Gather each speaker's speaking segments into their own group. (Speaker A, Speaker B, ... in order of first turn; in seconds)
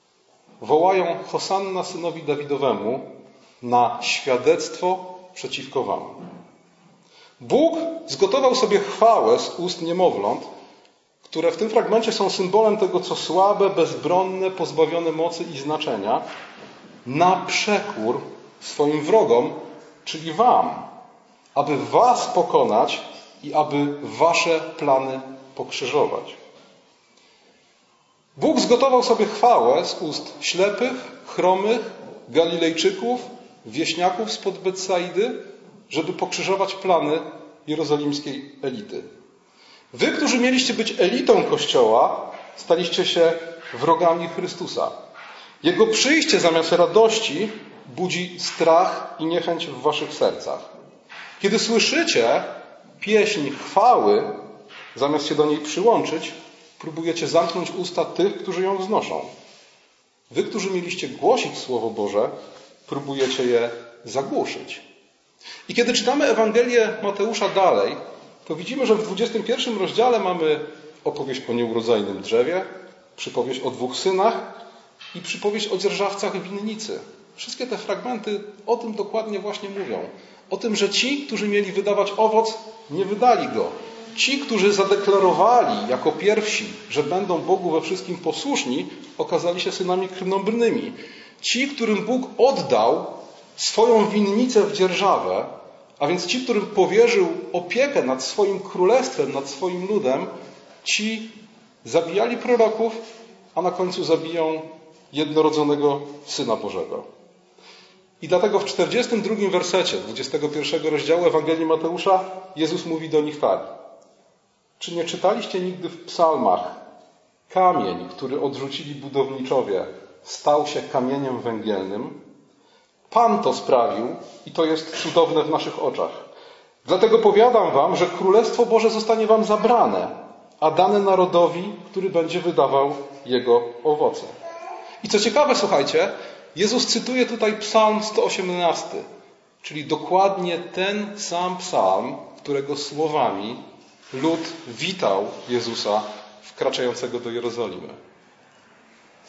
Speaker A: 0.6-6.2, 7.4-10.5, 11.3-16.2, 17.1-20.9, 21.6-26.4, 28.4-39.1, 39.9-44.9, 45.6-50.6, 51.4-54.4, 54.9-59.3, 60.3-62.3, 62.9-64.8, 65.7-74.5, 75.1-100.3, 100.8-103.0, 103.5-107.1, 108.2-113.7, 114.8-116.8, 117.5-122.2, 123.1-126.2, 126.8-134.3, 135.0-139.1, 139.6-143.6, 144.1-148.0